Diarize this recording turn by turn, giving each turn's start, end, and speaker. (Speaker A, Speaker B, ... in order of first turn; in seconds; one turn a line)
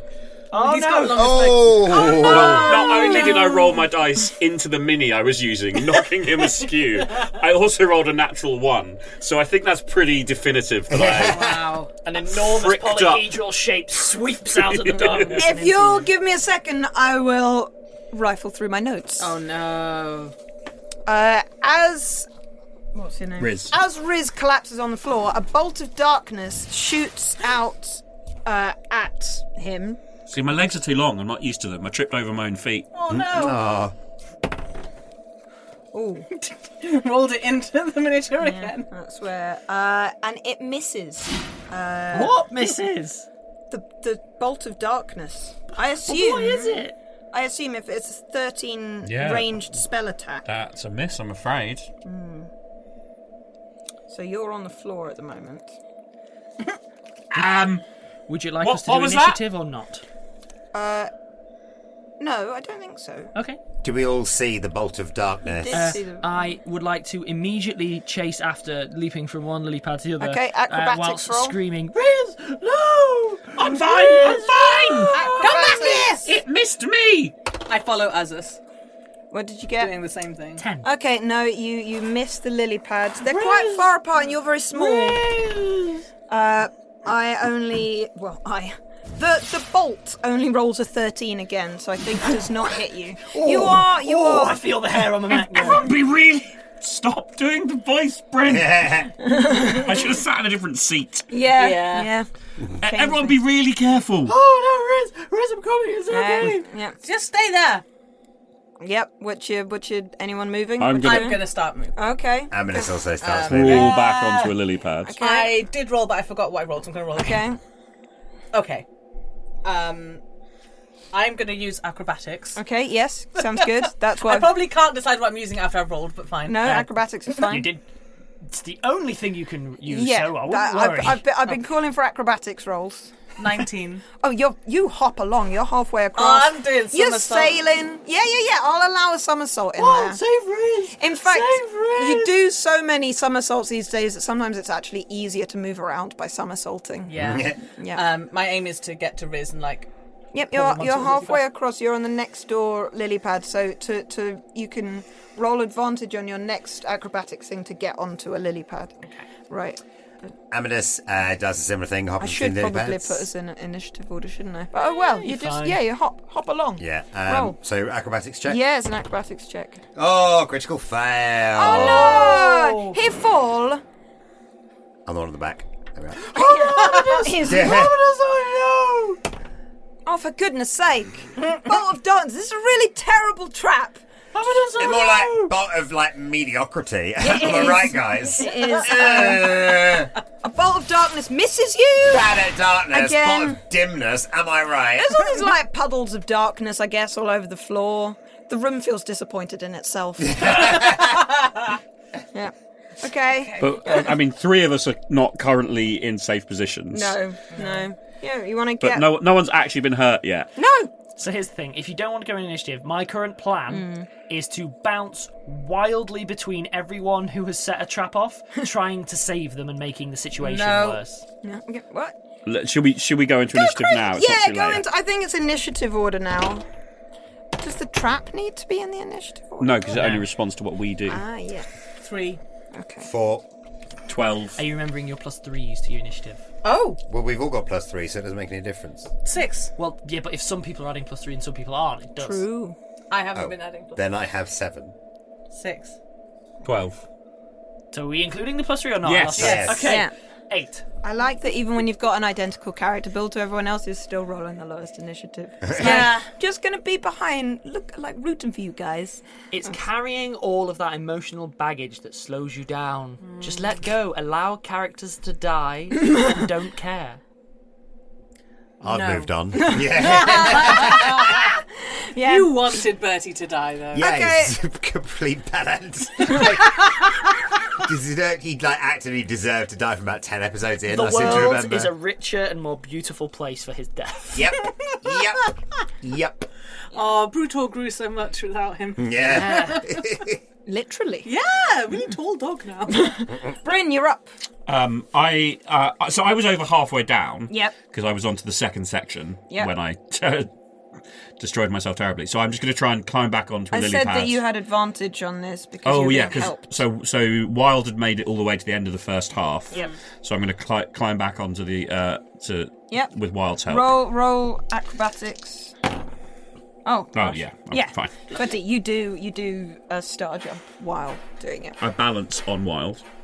Speaker A: 0.5-1.5
Speaker B: 0.5-3.4
Speaker C: 1.1-2.9
Speaker D: 2.0-11.5
Speaker E: 3.0-3.6
Speaker C: 10.9-11.7
Speaker B: 11.2-11.9
Speaker A: 12.0-16.1
Speaker D: 12.2-13.3
Speaker D: 14.6-15.4
Speaker E: 15.3-19.4
Speaker B: 19.2-20.3
Speaker E: 21.1-22.3
Speaker E: 22.9-30.0
Speaker D: 23.4-23.8
Speaker D: 30.3-32.9
Speaker B: 32.9-33.7
Speaker C: 33.1-33.9
Speaker E: 35.9-36.3
Speaker B: 36.3-38.9
Speaker E: 38.4-42.4
Speaker A: 42.1-43.2
Speaker E: 43.7-50.5
Speaker A: 46.0-47.0
Speaker D: 49.0-49.8
Speaker D: 50.5-51.9
Speaker E: 52.0-52.5
Speaker E: 54.1-55.8
Speaker D: 57.3-57.8
Speaker A: 58.3-60.0
Speaker D: 58.6-59.4
Speaker E: 60.7-61.1
Speaker E: 62.2-63.3
Speaker C: 63.8-66.0
Speaker E: 65.5-66.5
Speaker A: 65.7-75.5
Speaker E: 70.2-71.6
Speaker D: 73.6-75.4
Speaker E: 75.1-76.2
Speaker B: 75.4-76.3
Speaker D: 76.2-77.3
Speaker B: 77.7-78.6
Speaker E: 79.3-79.9
Speaker B: 79.8-80.7
Speaker A: 80.6-80.9
Speaker E: 80.8-85.3
Speaker A: 83.3-83.9
Speaker A: 84.8-86.0
Speaker E: 86.3-94.7
Speaker A: 93.3-95.9
Speaker D: 95.3-99.1
Speaker C: 98.5-99.1
Speaker E: 99.2-100.1
Speaker D: 99.7-101.3
Speaker E: 101.3-102.3
Speaker B: 101.5-102.1
Speaker D: 102.8-104.3
Speaker E: 102.8-103.4
Speaker A: 104.2-106.6
Speaker E: 106.1-107.0
Speaker B: 107.0-107.8
Speaker E: 108.8-113.0
Speaker D: 110.8-111.4
Speaker B: 111.0-112.0
Speaker C: 112.5-113.9
Speaker B: 113.2-114.5
Speaker D: 113.4-115.2
Speaker E: 115.0-115.6
Speaker B: 115.2-117.5
Speaker E: 117.2-117.6
Speaker B: 118.5-118.9
Speaker B: 119.6-120.2
Speaker B: 121.1-122.6
Speaker E: 122.5-124.6
Speaker B: 123.4-126.8
Speaker E: 126.5-127.7
Speaker A: 126.6-127.8
Speaker A: 128.4-131.2
Speaker E: 129.9-133.3
Speaker B: 133.4-134.0
Speaker E: 134.2-140.2
Speaker B: 136.2-137.6
Speaker A: 139.8-142.0
Speaker E: 141.0-148.0
Speaker B: 147.1-149.9
Speaker C: 147.2-147.6
Speaker E: 150.3-159.8
Speaker B: 150.6-151.4
Speaker C: 160.5-163.3
Speaker E: 162.2-167.6
Speaker A: 165.0-165.8
Speaker C: 166.8-168.6
Speaker E: 168.5-169.8
Speaker C: 170.0-172.4
Speaker E: 171.5-173.8
Speaker A: 171.6-173.0
Speaker C: 175.1-176.3
Speaker E: 176.3-177.9
Speaker B: 176.7-177.3
Speaker A: 176.9-179.1
Speaker C: 177.4-178.0
Speaker E: 180.1-184.0
Speaker A: 184.3-185.5
Speaker C: 184.8-190.1
Speaker E: 187.2-189.7
Speaker E: 190.4-192.3
Speaker C: 192.1-195.5
Speaker E: 192.9-193.6
Speaker E: 195.0-201.1
Speaker C: 200.4-201.0
Speaker E: 202.3-204.1
Speaker B: 203.3-204.0
Speaker D: 203.6-207.2
Speaker E: 206.9-209.1
Speaker B: 207.5-207.9
Speaker D: 208.8-210.5
Speaker E: 210.6-210.9
Speaker A: 211.2-221.2
Speaker E: 213.7-214.1
Speaker B: 220.4-221.0
Speaker E: 221.4-222.2
Speaker D: 222.5-224.8
Speaker E: 223.5-226.6
Speaker E: 227.6-230.1
Speaker D: 229.6-231.2
Speaker A: 229.9-230.3
Speaker E: 231.1-231.7
Speaker B: 232.0-232.4
Speaker E: 232.7-233.1
Speaker C: 233.0-233.4
Speaker D: 234.1-234.6
Speaker A: 234.6-236.4
Speaker B: 236.6-237.0
Speaker C: 237.1-239.1
Speaker B: 239.2-239.7
Speaker A: 239.8-242.4
Speaker E: 242.2-242.8
Speaker B: 243.1-244.0
Speaker C: 243.3-244.9
Speaker B: 245.5-246.0
Speaker D: 246.6-247.0
Speaker A: 247.9-250.8
Speaker D: 249.0-249.6
Speaker C: 249.4-250.0
Speaker B: 249.4-250.0
Speaker E: 249.8-250.1
Speaker E: 251.0-259.2
Speaker C: 255.7-256.1
Speaker B: 255.8-256.2
Speaker A: 255.8-256.1
Speaker A: 259.5-267.2
Speaker B: 263.2-263.8
Speaker C: 268.8-271.3
Speaker B: 268.8-271.5
Speaker E: 270.0-271.6
Speaker E: 272.1-272.8
Speaker B: 272.2-274.1
Speaker C: 273.9-277.1
Speaker E: 273.9-274.6
Speaker C: 277.8-281.9
Speaker A: 280.9-284.5
Speaker C: 284.3-286.5
Speaker B: 286.9-290.1
Speaker C: 289.0-290.4
Speaker A: 289.4-289.8
Speaker E: 290.6-291.3
Speaker B: 291.2-293.1
Speaker E: 292.9-294.3
Speaker D: 294.6-300.5
Speaker D: 301.4-304.4
Speaker E: 303.7-306.8
Speaker D: 305.9-314.0
Speaker E: 313.7-315.8
Speaker E: 316.8-321.8
Speaker D: 317.1-318.3
Speaker D: 321.8-323.0